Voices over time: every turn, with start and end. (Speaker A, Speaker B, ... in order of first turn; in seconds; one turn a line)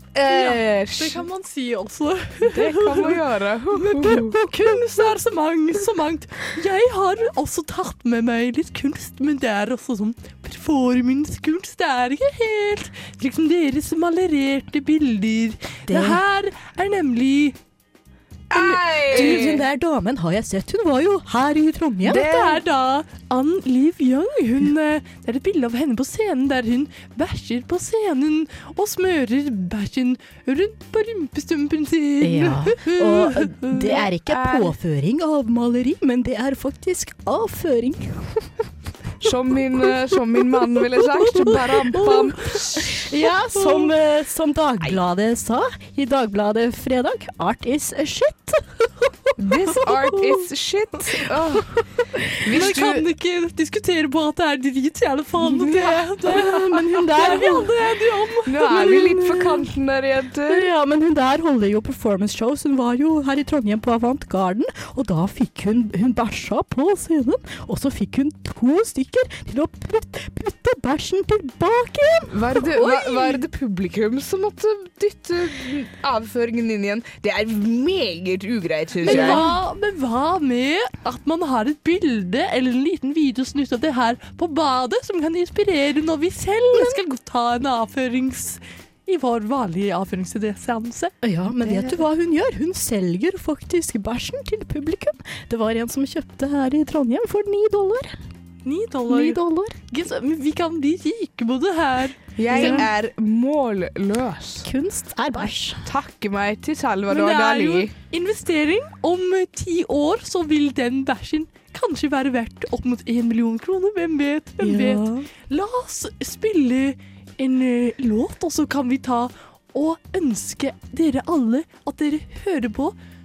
Speaker A: 0.1-1.2
Speaker B: 0.2-3.2
Speaker A: 2.5-4.8
Speaker B: 3.7-17.6
Speaker C: 15.9-16.2
Speaker A: 18.5-19.6
Speaker C: 18.5-22.5
Speaker B: 19.1-19.4
Speaker B: 22.0-34.0
Speaker C: 32.2-38.4
Speaker A: 33.9-34.7
Speaker A: 39.2-42.6
Speaker B: 41.1-43.9
Speaker C: 43.0-48.6
Speaker A: 49.4-51.7
Speaker A: 52.4-53.0
Speaker B: 52.5-59.3
Speaker A: 55.4-56.0
Speaker C: 56.2-57.7
Speaker A: 58.5-60.7
Speaker C: 60.5-72.6
Speaker A: 72.3-79.4
Speaker B: 72.8-73.4
Speaker B: 79.0-91.1
Speaker C: 79.0-79.6
Speaker C: 91.2-98.1
Speaker B: 98.6-102.9
Speaker C: 99.1-99.8
Speaker A: 102.4-104.7
Speaker C: 102.5-102.9
Speaker C: 104.6-105.8
Speaker A: 105.4-107.9
Speaker B: 107.1-123.0
Speaker C: 114.6-115.3